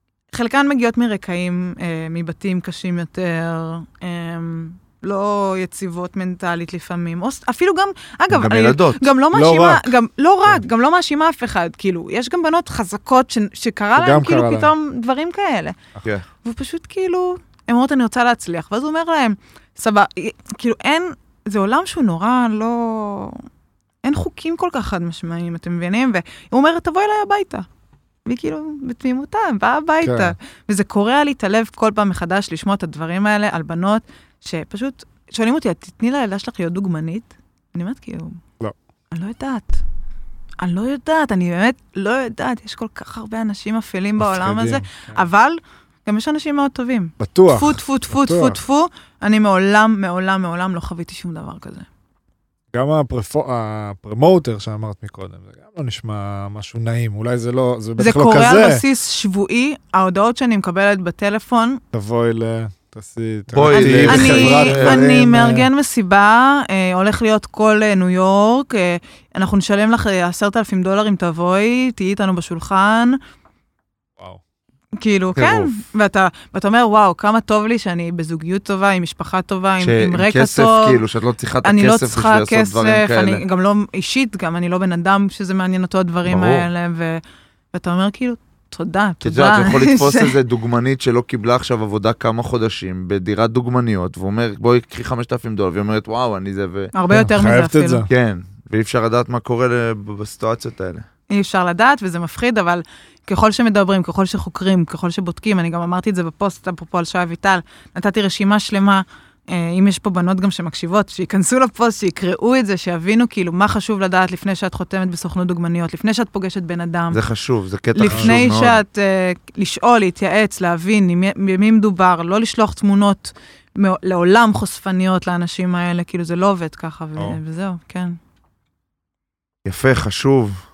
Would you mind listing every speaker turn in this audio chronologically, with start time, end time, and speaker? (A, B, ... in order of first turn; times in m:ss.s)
0:00.3-0:15.8 A
0:08.3-0:09.1 B
0:09.3-0:09.9 C
0:14.0-0:14.7 C
0:16.4-0:23.4 A
0:24.0-0:27.7 A
0:28.2-0:38.4 A
0:30.0-0:30.3 C
0:39.1-0:39.8 A
0:40.6-0:51.8 A
0:44.2-0:45.2 C
0:47.2-0:48.6 C
0:52.7-0:58.8 C
0:58.0-1:01.8 A
1:01.9-1:05.7 C
1:03.5-1:05.0 B
1:03.7-1:13.2 A
1:15.0-1:21.0 A
1:15.3-1:15.7 B
1:19.8-1:23.4 B
1:21.6-1:27.2 A
1:26.2-1:26.7 B
1:27.7-1:30.3 A
1:29.2-1:36.9 B
1:36.9-1:38.1 A
1:37.1-1:38.1 C
1:38.1-1:41.0 B
1:41.3-1:57.2 A
1:57.1-1:58.8 B
1:57.9-2:08.2 A
1:58.0-1:58.3 C
2:09.6-2:10.6 B